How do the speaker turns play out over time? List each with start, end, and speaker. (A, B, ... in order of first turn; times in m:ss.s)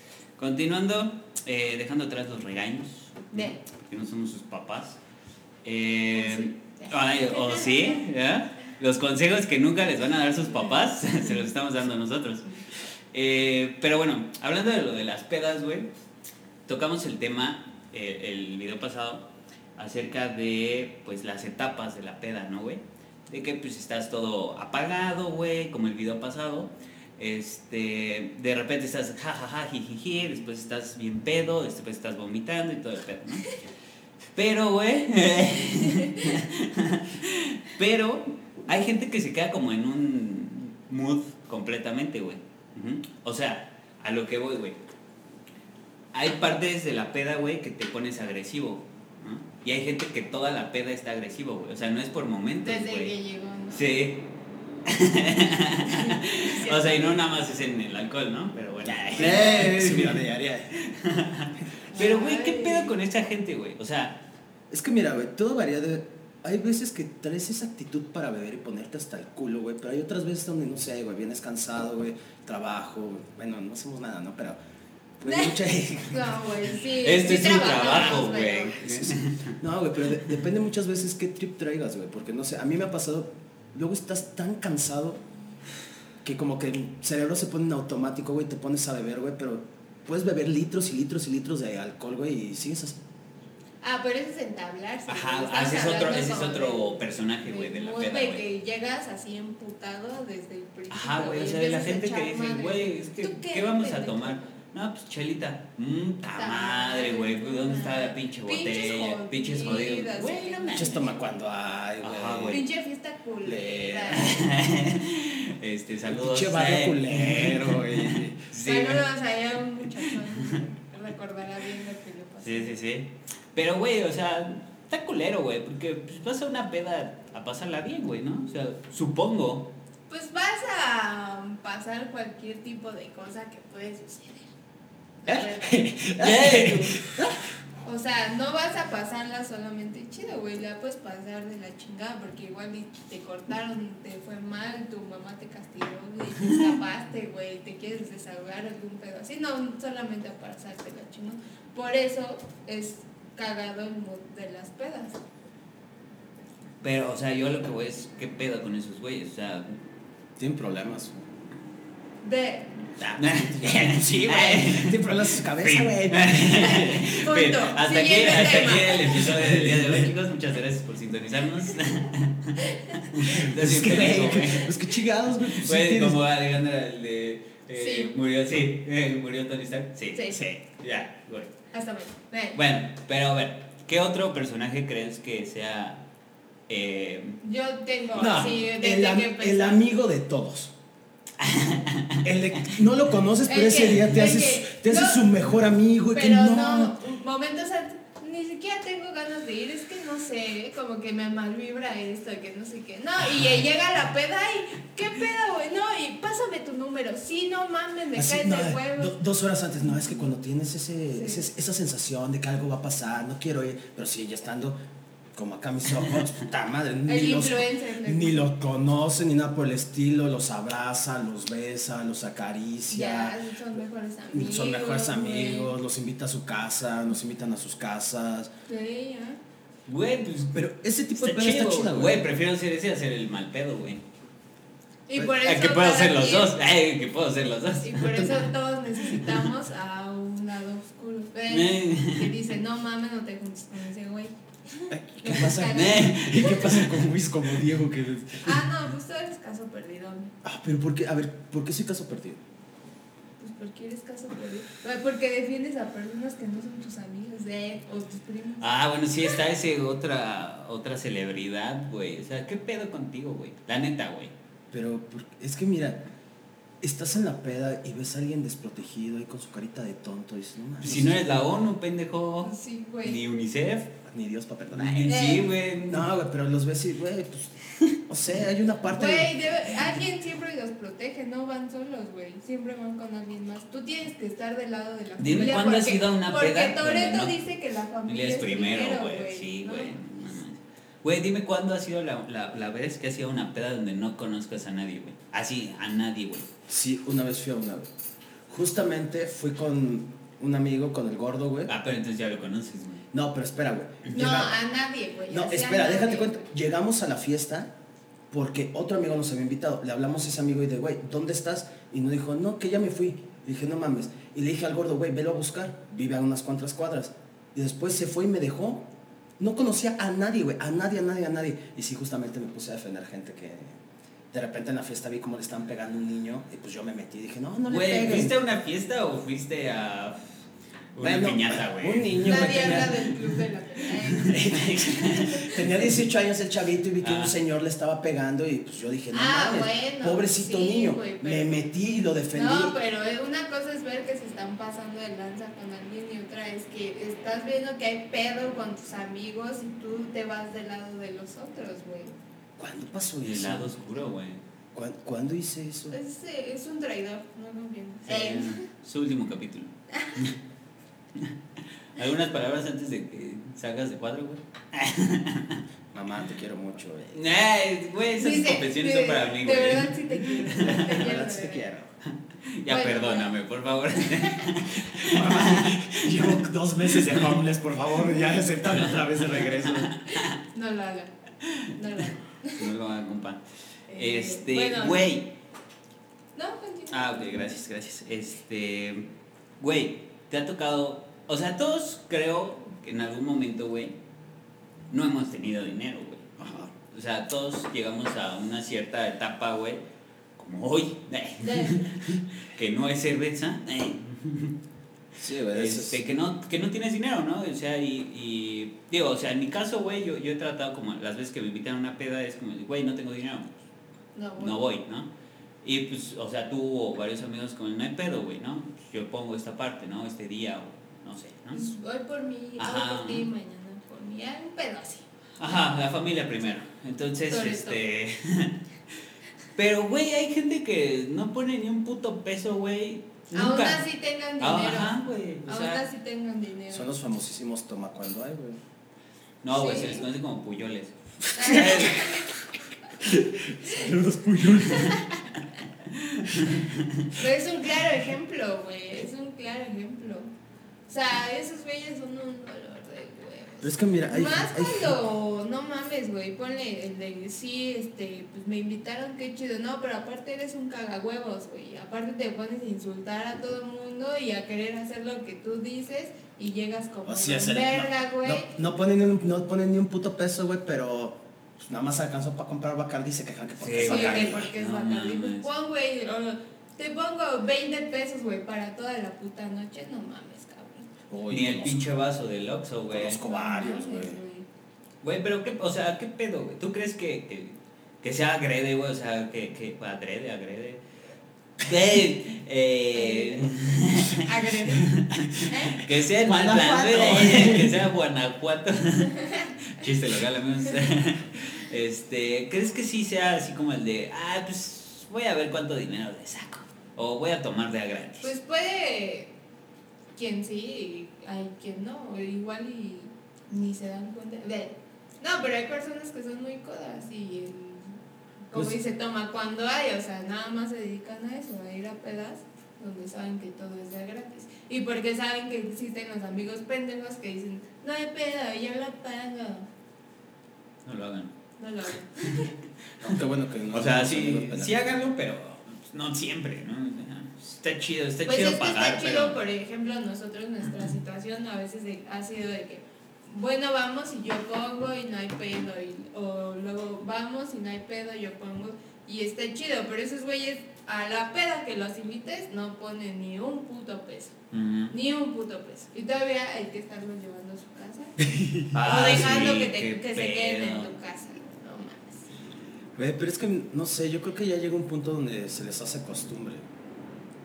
0:00.4-0:05.0 A
0:03.3-0:03.6 B
0:05.6-0:12.5 A
0:06.1-0:08.0 B
0:13.1-0:15.9 A
0:16.6-0:19.2 A
0:19.8-0:33.6 A
0:34.3-0:44.8 A
0:46.1-0:53.1 A
0:52.6-0:53.8 B
0:53.7-0:54.2 A
0:54.8-1:04.2 A
0:55.9-0:57.2 B
0:58.8-1:00.7 C
0:59.2-0:59.7 B
1:01.9-1:02.9 B
1:04.7-1:14.6 C
1:15.2-1:16.4 C
1:15.3-1:15.5 B
1:16.1-1:18.8 B
1:17.0-1:19.5 A
1:18.8-1:25.2 C
1:26.2-1:33.0 C
1:33.8-1:44.4 B
1:35.1-1:38.4 A
1:40.9-1:51.0 A
1:46.3-1:51.2 B
1:50.7-1:52.6 C
1:52.0-1:52.6 A
1:52.5-1:54.5 B
1:53.4-1:54.3 C
1:54.1-1:59.0 A
1:56.0-1:58.4 C
1:58.6-2:02.8 B
2:02.4-2:09.7 A
2:10.1-2:14.5 B
2:15.2-2:16.0 B
2:15.2-2:17.4 C
2:16.2-2:17.1 A
2:17.8-2:35.2 B
2:26.4-2:26.7 A
2:36.8-2:39.7 A
2:40.4-2:41.2 C
2:42.2-2:42.8 B
2:43.0-2:46.8 C
2:43.2-2:45.0 A
2:45.6-2:54.7 A
2:46.4-2:49.4 B
2:49.2-2:50.1 C
2:52.6-2:53.0 B
2:53.2-2:56.2 C
2:55.4-3:01.5 A
2:57.8-2:58.2 B
3:00.1-3:00.4 B
3:01.7-3:02.6 B
3:02.5-3:06.0 A
3:06.7-3:07.4 A
3:07.4-3:09.8 B
3:08.1-3:10.7 C
3:11.4-3:12.2 A
3:12.2-3:16.9 C
3:13.4-3:15.2 B
3:16.1-3:29.2 B
3:23.2-3:23.6 A
3:28.1-3:34.8 C
3:29.8-3:30.2 B
3:31.1-3:31.5 B
3:35.3-3:43.4 C
3:37.1-3:38.5 B
3:42.9-3:45.8 B
3:44.3-3:48.5 C
3:48.7-3:49.4 B
3:49.8-3:50.6 A
3:50.5-3:52.2 C
3:51.2-3:54.0 A
3:55.1-3:56.5 B
3:55.2-3:58.5 A
3:57.8-4:06.6 B
4:01.5-4:02.3 A
4:04.9-4:08.6 C
4:05.5-4:07.0 A
4:08.4-4:10.3 B
4:10.4-4:12.4 C
4:13.4-4:18.7 B
4:18.6-4:24.3 A
4:24.7-4:26.0 C
4:26.8-4:31.2 C
4:30.8-4:32.5 A
4:32.4-4:33.2 B
4:33.0-4:33.9 A
4:34.0-4:35.2 C
4:34.7-4:36.1 A
4:35.1-4:35.5 B
4:35.8-4:39.5 C
4:38.9-4:50.0 B
4:45.2-4:47.3 A
4:48.0-4:56.5 A
4:56.7-4:57.9 C
4:58.5-5:01.7 C
5:01.7-5:03.0 A
5:03.1-5:04.5 C
5:04.1-5:06.4 B
5:05.3-5:07.7 C
5:08.3-5:23.8 C
5:24.3-5:28.4 C
5:27.7-5:30.3 A
5:30.9-5:32.9 A
5:31.0-5:32.9 C
5:32.2-5:35.6 B
5:34.0-5:35.7 A
5:35.4-5:42.8 C
5:37.0-5:37.3 A
5:39.1-5:41.5 B
5:42.3-5:52.1 B
5:52.6-5:53.7 C
5:53.2-5:54.4 A
5:54.7-5:56.0 C
5:55.9-5:58.6 B
5:58.1-6:00.4 A
5:59.9-6:00.2 B
6:01.9-6:05.6 A
6:05.9-6:07.2 C
6:07.1-6:11.0 A
6:08.2-6:11.6 B
6:10.6-6:11.9 C
6:12.5-6:16.4 A
6:12.7-6:13.3 B
6:13.9-6:14.4 B
6:14.8-6:19.9 C
6:16.9-6:17.3 A
6:18.7-6:20.3 A
6:20.4-6:21.1 B
6:21.7-6:22.7 B
6:22.6-6:23.4 A
6:23.9-6:25.1 B
6:24.0-6:25.3 A
6:26.3-6:27.2 B
6:26.9-6:29.1 A
6:29.6-6:33.9 A
6:34.9-6:39.8 A
6:36.4-6:36.7 C
6:40.4-6:44.6 A
6:41.4-6:41.9 B
6:45.2-6:46.0 C
6:45.5-6:53.6 A
6:54.1-6:54.6 B
6:54.4-6:55.1 A
6:55.6-7:01.6 A
7:01.5-7:05.0 B
7:02.6-7:03.3 A
7:05.4-7:08.6 A
7:07.3-7:07.8 B
7:09.5-7:13.8 A
7:13.3-7:16.9 B
7:14.4-7:15.8 A
7:16.7-7:18.6 C
7:19.4-7:22.0 A
7:19.5-7:20.0 B
7:21.3-7:22.3 B
7:21.4-7:22.1 C
7:23.0-7:25.0 C
7:24.6-7:25.2 B
7:25.9-7:27.0 A
7:27.1-7:30.3 B
7:30.9-7:48.5 B
7:33.6-7:35.0 C
7:47.0-7:54.5 C
7:53.6-7:55.5 A
7:53.8-8:00.9 B
8:01.1-8:01.9 C
8:01.3-8:03.2 A
8:02.9-8:04.2 C
8:03.2-8:04.4 B
8:05.0-8:10.8 A
8:11.6-8:28.3 A
8:12.9-8:13.5 B
8:14.1-8:14.9 B
8:15.5-8:15.8 B
8:16.2-8:17.8 C
8:28.2-8:29.3 B
8:30.1-8:37.9 B
8:38.5-8:49.7 B
8:50.8-8:51.3 A
8:51.6-8:52.5 B
8:53.0-8:54.9 C
8:53.7-8:59.4 A
8:58.2-9:14.3 B
9:14.5-9:14.9 A
9:14.9-9:18.1 B
9:18.2-9:18.7 C
9:18.7-9:20.9 A
9:18.8-9:22.3 B
9:22.9-9:26.6 C